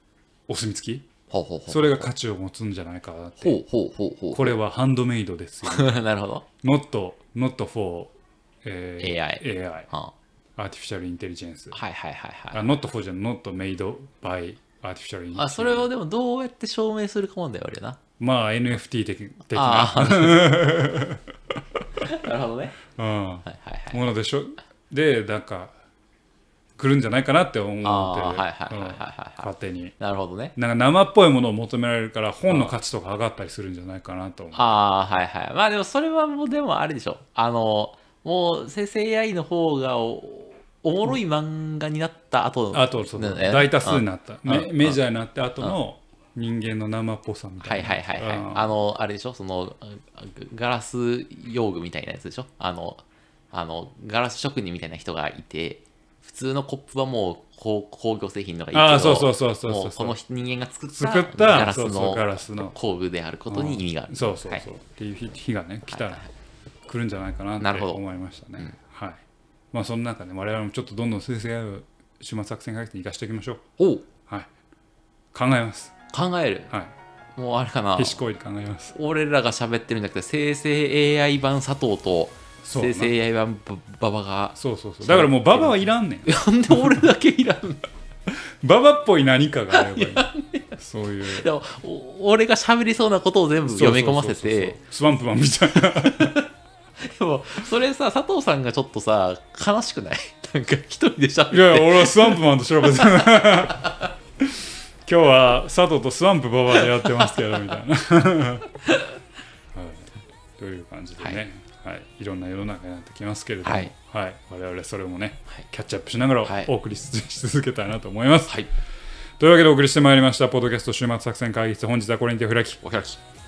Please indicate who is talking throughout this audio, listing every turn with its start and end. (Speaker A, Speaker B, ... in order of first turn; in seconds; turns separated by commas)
Speaker A: 0.5-1.1, Speaker B: 1.3-2.1, Speaker A: 1.7-3.6, Speaker B: 3.4-4.5, Speaker A: 4.3-6.0, Speaker B: 5.6-6.4, Speaker A: 6.6-9.9, Speaker B: 9.0-10.1, Speaker A: 10.6-11.8, Speaker B: 11.7-12.7, Speaker A: 12.5-15.9, Speaker B: 15.3-18.0, Speaker A: 18.2-22.1, Speaker B: 19.5-20.8, Speaker B: 22.0-22.8, Speaker A: 22.9-25.7, Speaker B: 23.4-24.1, Speaker A: 26.8-29.9, Speaker B: 27.8-30.6, Speaker A: 30.6-34.6, Speaker B: 32.5-32.7, Speaker B: 34.5-45.0, Speaker A: 42.7-48.7, Speaker B: 47.6-64.7, Speaker A: 58.7-60.1, Speaker A: 60.9-62.7, Speaker A: 63.5-66.2, Speaker B: 65.9-66.3, Speaker A: 66.8-69.2, Speaker B: 67.6-68.0, Speaker A: 69.7-73.6, Speaker B: 73.8-74.0, Speaker A: 75.3-75.9, Speaker B: 76.1-76.7, Speaker B: 77.3-78.2, Speaker A: 78.0-78.9, Speaker B: 78.9-87.9, Speaker A: 82.6-83.1, Speaker A: 84.5-87.0, Speaker A: 88.3-91.5, Speaker B: 89.7-94.8, Speaker A: 93.7-96.4, Speaker B: 95.8-96.5, Speaker B: 97.0-104.1, Speaker A: 101.5-108.7, Speaker B: 106.9-107.6, Speaker A: 109.7-118.6, Speaker B: 113.6-113.9, Speaker B: 116.4-116.7, Speaker A: 119.4-122.8, Speaker B: 122.8-123.2